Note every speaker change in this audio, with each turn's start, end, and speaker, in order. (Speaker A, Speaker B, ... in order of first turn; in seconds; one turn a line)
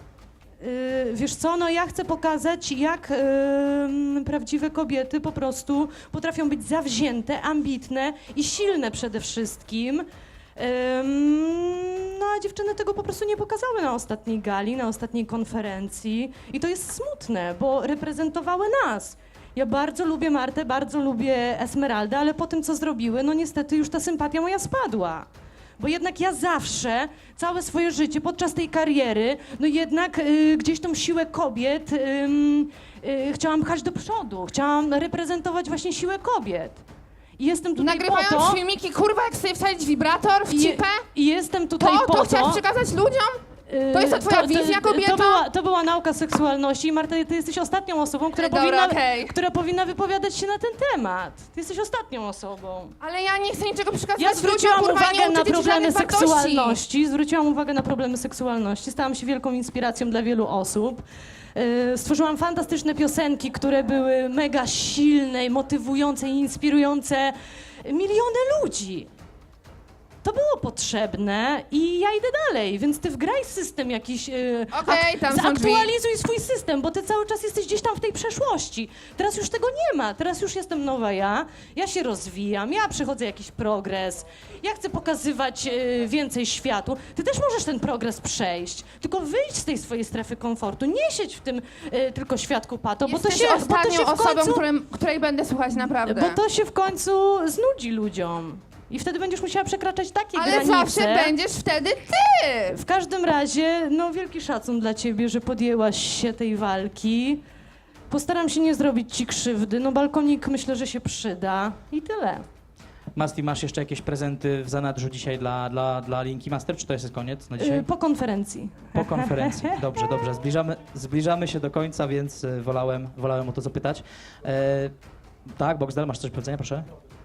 Speaker A: 0.6-25.3
Speaker A: 25.8-36.8
Speaker A: 37.4-38.6
Speaker B: 37.8-41.1
Speaker A: 40.5-42.6
Speaker B: 41.8-45.5
Speaker A: 43.7-53.0
Speaker B: 48.4-49.4
Speaker B: 53.0-56.8
Speaker A: 54.2-61.0
Speaker A: 61.5-69.1
Speaker A: 70.2-94.7
Speaker B: 74.7-75.9
Speaker B: 93.1-96.4
Speaker A: 95.8-101.3
Speaker B: 100.3-102.8
Speaker A: 102.7-107.4
Speaker A: 108.1-112.5
Speaker C: 113.2-117.9
Speaker A: 117.6-119.8
Speaker C: 118.9-124.9
Speaker C: 125.6-126.9